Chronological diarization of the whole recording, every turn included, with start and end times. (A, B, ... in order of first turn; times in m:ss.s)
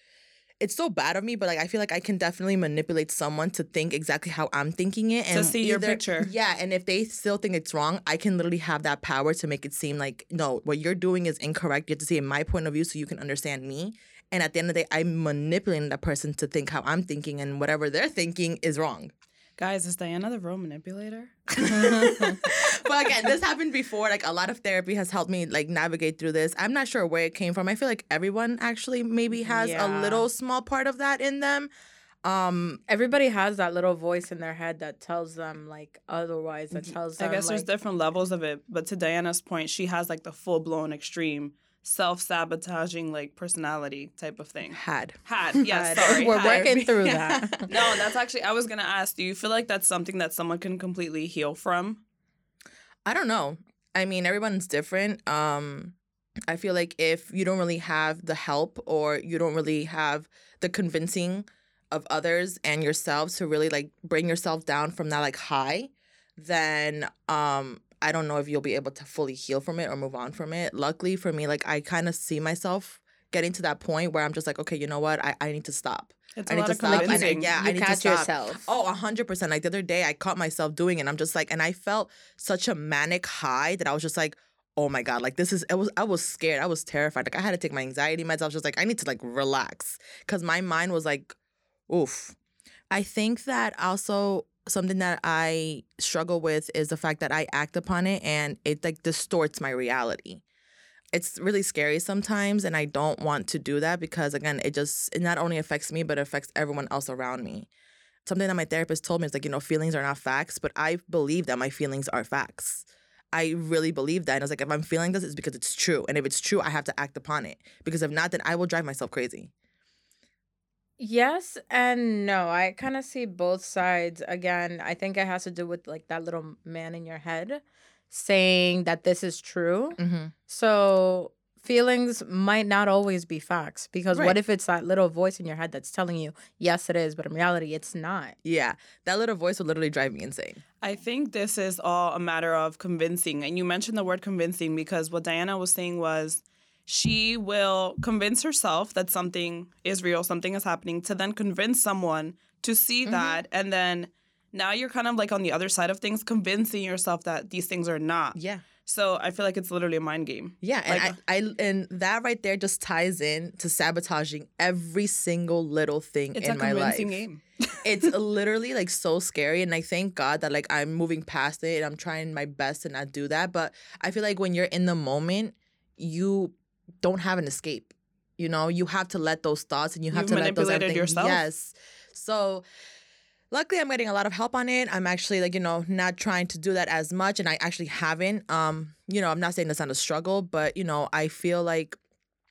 0:00.6-0:19.1 A
0:05.3-0:06.3 B
0:19.6-0:21.6 B
0:21.6-0:31.7 A
0:21.6-0:22.4 C
0:29.3-0:30.3 C
0:32.2-0:32.8 A
0:32.9-0:37.7 C
0:37.2-0:46.7 B
0:44.7-0:48.1 A
0:45.7-0:47.6 C
0:47.7-0:52.0 B
0:53.1-0:56.0 A
0:56.5-1:31.4 A
1:16.4-1:17.5 B
1:16.8-1:18.7 C
1:31.9-1:32.4 A
1:32.9-1:40.4 A
1:41.1-1:47.7 A
1:48.2-1:59.5 A
2:01.0-2:18.4 C
2:10.0-2:10.3 A
2:14.1-2:14.4 A
2:18.4-2:20.6 A
2:20.8-2:41.2 B
2:33.0-2:33.4 A
2:38.4-2:38.6 A
2:40.6-2:47.2 A
2:46.4-2:48.1 B
2:47.8-3:02.6 A
3:00.1-3:01.4 B
3:03.5-3:12.0 A